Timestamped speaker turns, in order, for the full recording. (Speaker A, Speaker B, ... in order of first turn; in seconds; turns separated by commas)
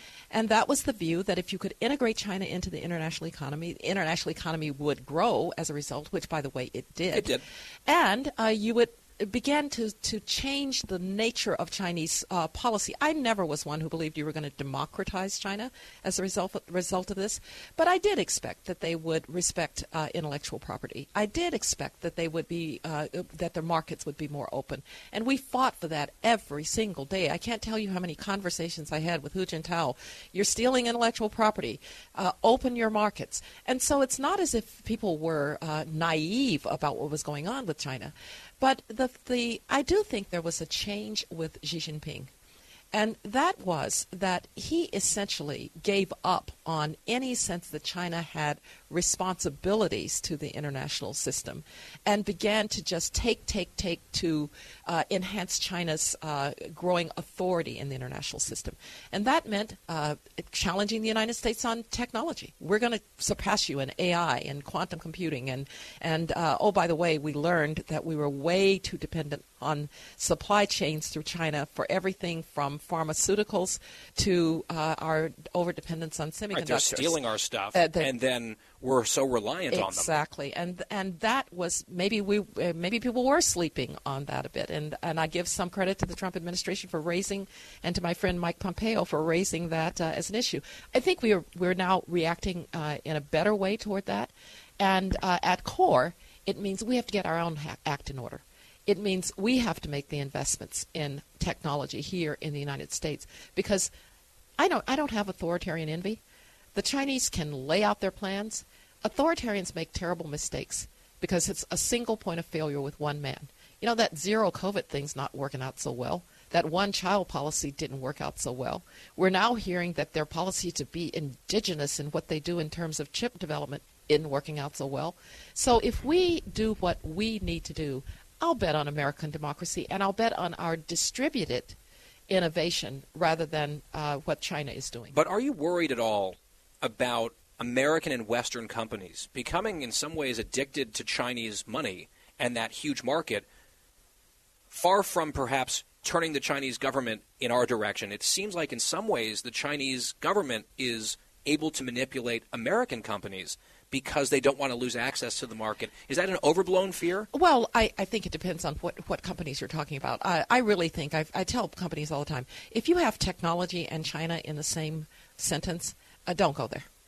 Speaker A: 0.3-42.3, Speaker B: 7.1-7.4, Speaker A: 42.9-77.2, Speaker B: 76.5-80.2, Speaker A: 77.7-78.1, Speaker A: 79.7-103.9, Speaker A: 104.6-106.2, Speaker A: 106.7-131.8, Speaker A: 132.3-135.1, Speaker B: 135.1-143.5, Speaker B: 144.7-157.3, Speaker A: 157.3-166.8